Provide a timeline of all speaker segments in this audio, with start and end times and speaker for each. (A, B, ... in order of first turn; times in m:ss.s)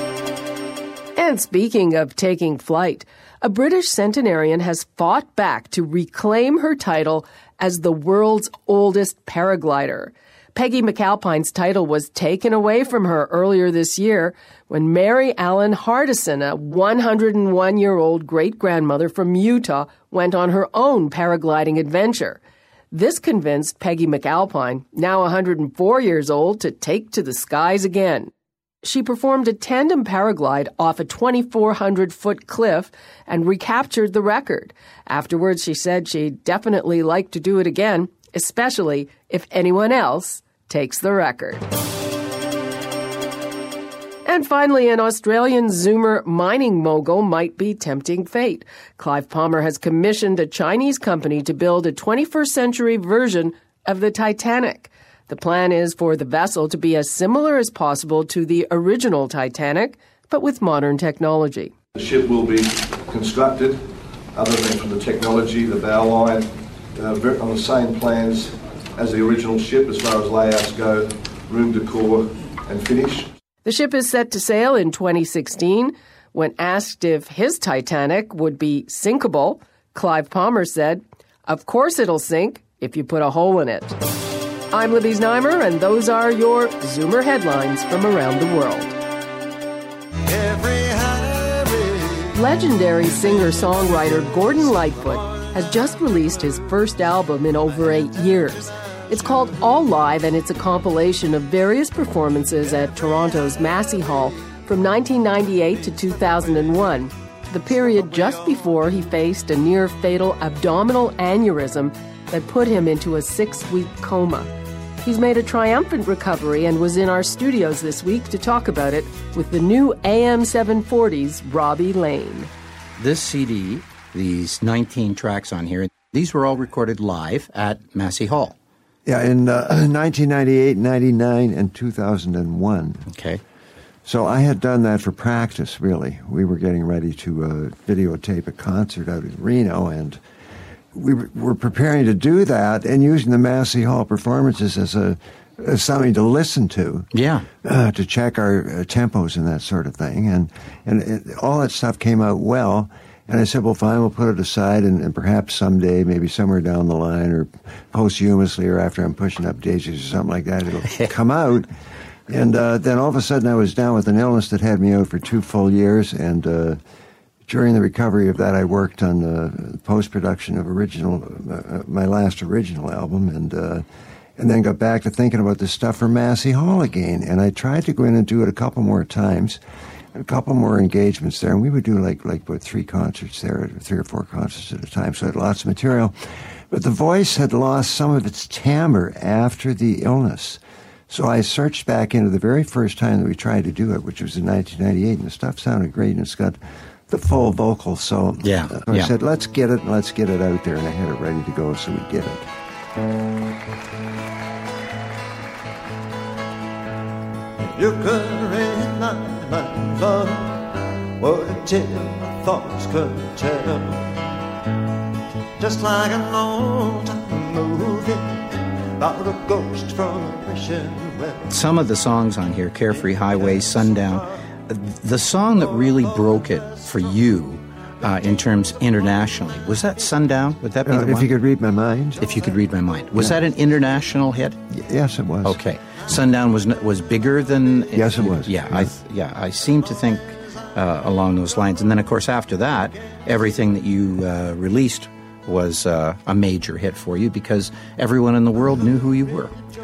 0:01.2-0:22.4 A
0:22.9-0:28.3 A
0:28.8-0:41.6 A
0:44.2-1:01.7 A
1:01.9-1:13.3 B
1:13.6-1:23.9 A
1:24.7-1:28.9 A
1:30.3-1:32.3 C
1:32.3-1:54.5 A
1:55.0-2:02.5 A
2:03.0-2:08.5 D
2:09.0-2:13.0 E
2:13.1-2:13.4 D
2:14.0-2:20.2 E
2:20.9-2:27.1 E
2:27.1-2:27.4 D
2:27.6-2:41.7 E
2:42.3-2:46.8 E
2:47.5-2:53.8 E
2:54.4-2:59.6 E
3:00.1-3:06.1 E
3:06.7-3:16.6 E
3:17.1-3:22.5 E
3:18.4-3:19.1 D
3:27.8-3:28.1 E
3:27.8-3:30.6 C
3:29.0-3:30.2 E
3:31.2-3:31.8 E
3:31.4-3:33.8 C
3:32.4-3:32.8 E
3:35.6-3:38.4 C
3:39.0-3:41.4 C
3:41.5-3:51.3 D
3:50.8-3:52.2 E
3:52.2-3:54.6 D
3:53.1-3:53.4 E
3:54.7-3:55.6 E
3:55.4-4:09.5 D
3:57.9-3:58.9 E